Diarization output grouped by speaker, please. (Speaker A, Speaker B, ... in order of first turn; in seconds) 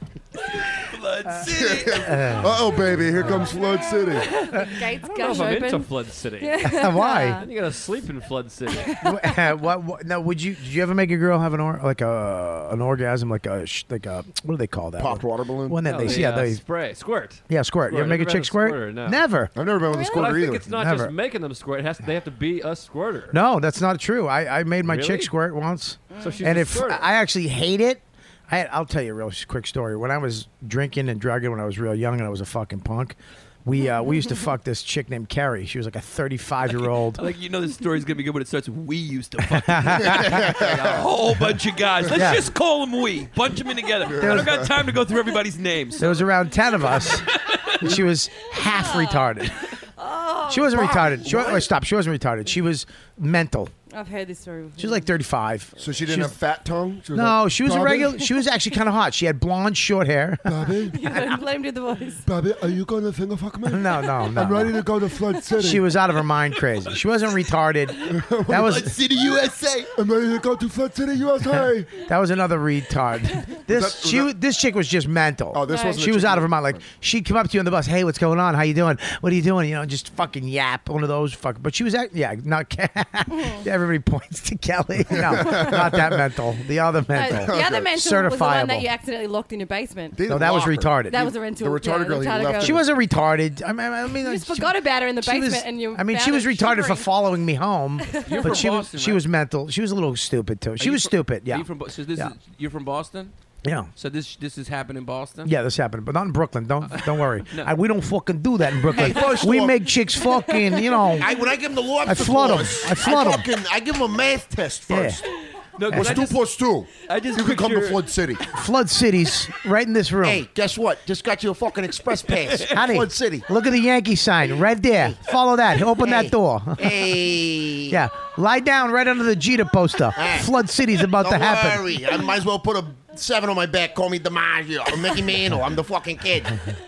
Speaker A: 0.8-2.3, 37.1-46.3, 47.3-47.8, 68.5-69.9, 98.2-99.2, 100.8-103.3, 104.0-105.5, 106.8-107.7, 108.9-109.6, 115.7-116.4, 117.0-118.1, 122.3-122.8
Speaker B: 1.4-4.3, 15.0-16.2, 19.5-20.7, 40.0-41.1, 44.0-44.7, 50.9-51.6, 55.8-58.2, 60.5-61.2, 62.2-65.9, 68.1-71.9, 73.7-74.3, 75.5-76.8, 85.0-86.3, 87.3-88.0, 90.1-92.9, 109.1-109.4, 115.9-118.4
Speaker C: 2.0-3.5, 6.6-7.4, 9.0-16.6, 17.5-19.5, 20.6-21.1, 23.3-37.2, 39.4-40.5, 42.1-42.5, 44.1-44.7, 46.0-47.3, 47.8-49.6, 50.5-53.7, 54.8-56.4, 57.1-60.7, 63.6-64.8, 65.5-69.0, 71.5-88.9, 90.3-91.3, 92.5-102.3, 103.6-103.9, 105.4-111.3, 112.0-113.5, 114.9-115.2, 115.9-116.2, 118.5-120.5, 122.7-127.2, 127.9-132.0
Speaker D: 4.1-7.5, 8.8-9.2, 19.9-20.4, 26.1-26.4, 48.6-49.3, 50.0-51.4, 53.9-55.1, 60.9-62.2, 75.7-76.0, 83.3-83.6, 87.1-90.5, 91.0-92.8, 94.1-97.1, 98.0-98.6, 110.3-110.7
Speaker E: 5.0-6.9, 7.4-9.0, 15.8-19.2, 20.1-23.4, 24.8-25.3, 26.2-27.1
Speaker F: 109.4-109.7, 111.2-115.2, 120.2-123.5, 126.0-128.0, 130.2-130.5, 131.1-136.6